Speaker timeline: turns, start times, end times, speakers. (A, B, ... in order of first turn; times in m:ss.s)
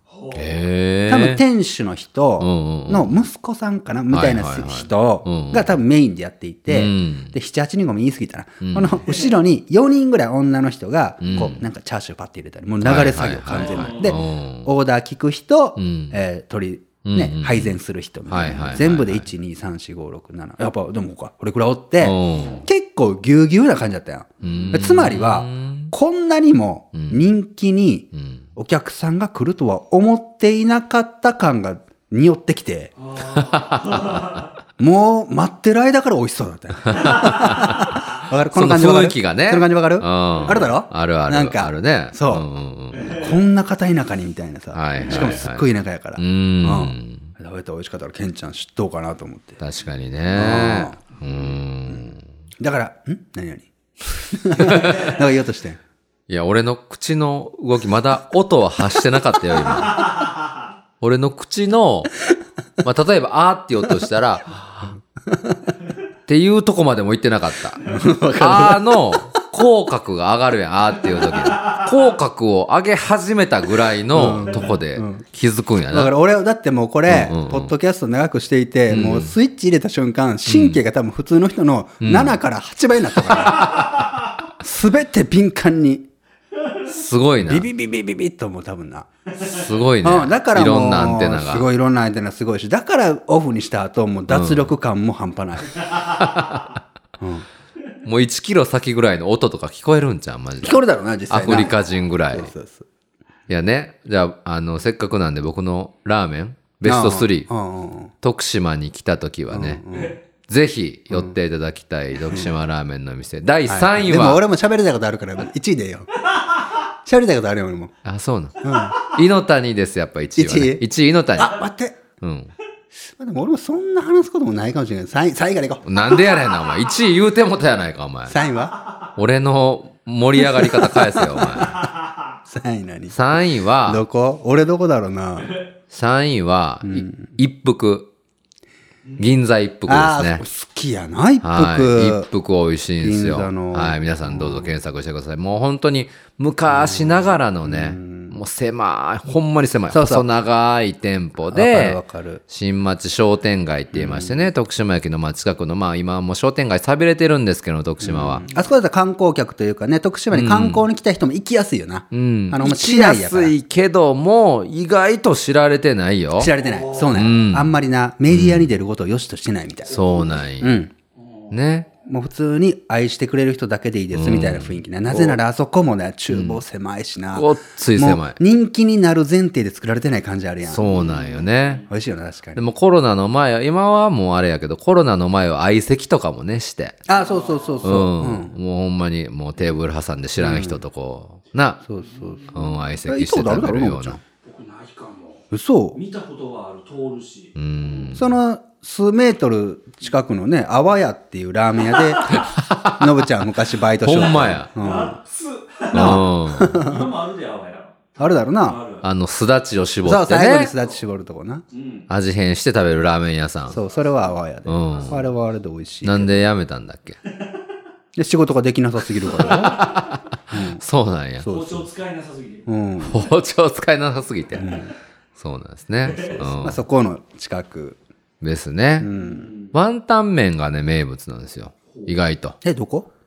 0:00.1-0:00.6 A
0:00.3-0:01.4 B
0:01.1-0:32.9 C
0:02.4-0:03.2 B
0:04.1-0:05.8 B
0:06.7-0:07.3 B
0:08.6-0:09.0 B
0:11.2-0:11.6 B
0:12.8-0:14.7 B
0:13.5-0:14.2 A
0:15.8-0:16.2 B
0:17.0-0:19.3 B
0:22.0-0:22.6 B
0:22.3-0:22.6 A
0:24.4-0:24.8 A
0:24.4-0:25.9 B
0:27.0-0:27.2 B
0:28.1-0:28.4 B
0:33.0-0:34.5 A
0:33.3-0:34.4 B
0:34.8-0:42.5 C
0:36.9-0:43.3 B
0:42.9-0:43.3 A
0:43.0-0:49.6 C
0:44.7-0:45.7 B
0:45.0-0:45.3 A
0:46.2-0:47.3 B
0:49.6-0:52.2 B
0:50.3-0:51.0 C
0:52.6-0:55.8 C
0:54.6-0:55.2 B
0:56.3-1:00.1 B
1:01.0-1:02.1 B
1:02.8-1:04.9 B
1:05.3-1:05.6 C
1:06.3-1:16.1 B
1:07.8-1:09.2 C
1:11.3-1:11.8 A
1:14.1-1:15.2 C
1:15.9-1:24.0 C
1:17.1-1:17.7 B
1:18.9-1:19.3 B
1:20.5-1:20.8 B
1:22.0-1:22.4 B
1:23.3-1:24.0 B
1:24.6-1:26.1 C
1:26.9-1:27.7 B
1:27.4-1:29.1 C
1:29.4-1:31.7 B
1:30.0-1:36.1 C
1:34.3-1:34.7 B
1:36.1-1:36.8 B
1:37.2-1:37.5 C
1:38.0-1:42.5 B
1:40.6-1:41.8 C
1:42.3-1:42.9 C
1:43.5-1:47.5 B
1:46.8-1:48.1 C
1:48.2-1:49.8 B
1:49.5-1:50.2 C
1:50.5-1:54.4 B
1:53.7-1:56.2 C
1:57.0-1:57.9 C
1:58.0-2:01.6 B
1:58.6-1:59.0 C
2:00.4-2:00.8 C
2:01.4-2:02.0 C
2:02.2-2:02.5 B
2:03.2-2:06.2 C
2:05.8-2:08.4 B
2:08.3-2:08.8 C
2:09.2-2:11.8 B
2:10.4-2:11.8 C
2:12.5-2:13.2 C
2:13.1-2:14.0 B
2:13.8-2:15.6 C
2:15.9-2:18.1 B
2:16.8-2:17.4 C
2:19.2-2:20.4 B
2:19.9-2:22.3 C
2:21.4-2:38.4 B
2:23.0-2:24.7 C
2:26.7-2:28.4 C
2:29.9-2:30.3 C
2:31.5-2:32.4 C
2:33.9-2:34.5 C
2:38.0-2:43.6 C
2:40.3-2:40.8 B
2:42.1-2:46.5 B
2:46.4-2:50.0 C
2:46.6-2:47.3 A
2:47.1-2:47.7 B
2:48.3-2:48.7 B
2:49.9-2:50.8 B
2:49.9-2:50.5 A
2:50.6-2:50.9 C
2:51.2-2:51.5 A
2:51.5-2:51.9 B
2:52.1-3:00.9 C
2:54.1-2:55.4 B
2:56.3-2:56.6 B
2:57.3-2:58.4 B
3:00.7-3:01.8 B
3:00.8-3:01.8 A
3:01.9-3:02.6 C
3:02.6-3:07.0 B
3:07.1-3:08.5 C
3:07.1-3:07.9 A
3:07.8-3:11.8 B
3:10.4-3:10.8 C
3:11.9-3:14.2 C
3:12.0-3:12.7 A
3:12.5-3:14.2 B
3:14.4-3:18.2 A
3:15.5-3:16.0 C
3:17.6-3:18.3 B
3:18.2-3:25.2 C
3:21.9-3:22.4 A
3:22.3-3:23.3 B
3:24.0-3:24.7 B
3:24.8-3:29.1 A
3:25.9-3:26.8 B
3:25.9-3:27.1 C
3:28.2-3:28.8 C
3:29.0-3:30.7 B
3:30.0-3:31.6 C
3:31.7-3:32.1 A
3:32.1-3:33.8 B
3:33.7-3:36.4 C
3:33.8-3:34.4 A
3:34.7-3:35.2 B
3:34.9-3:35.2 A
3:36.0-3:37.2 B
3:37.3-3:37.6 A
3:38.2-3:39.9 C
3:39.4-3:41.5 B
3:39.4-3:40.1 A
3:40.5-3:40.8 C
3:41.4-3:41.9 C
3:41.5-3:42.7 A
3:42.7-3:43.2 C
3:43.0-3:44.8 B
3:44.6-3:44.9 C
3:45.4-3:46.8 B
3:46.1-3:46.5 A
3:46.6-3:48.0 C
3:48.4-3:49.1 B
3:49.0-3:49.5 C
3:49.1-3:49.7 A
3:49.7-3:52.6 B
3:52.6-3:53.1 C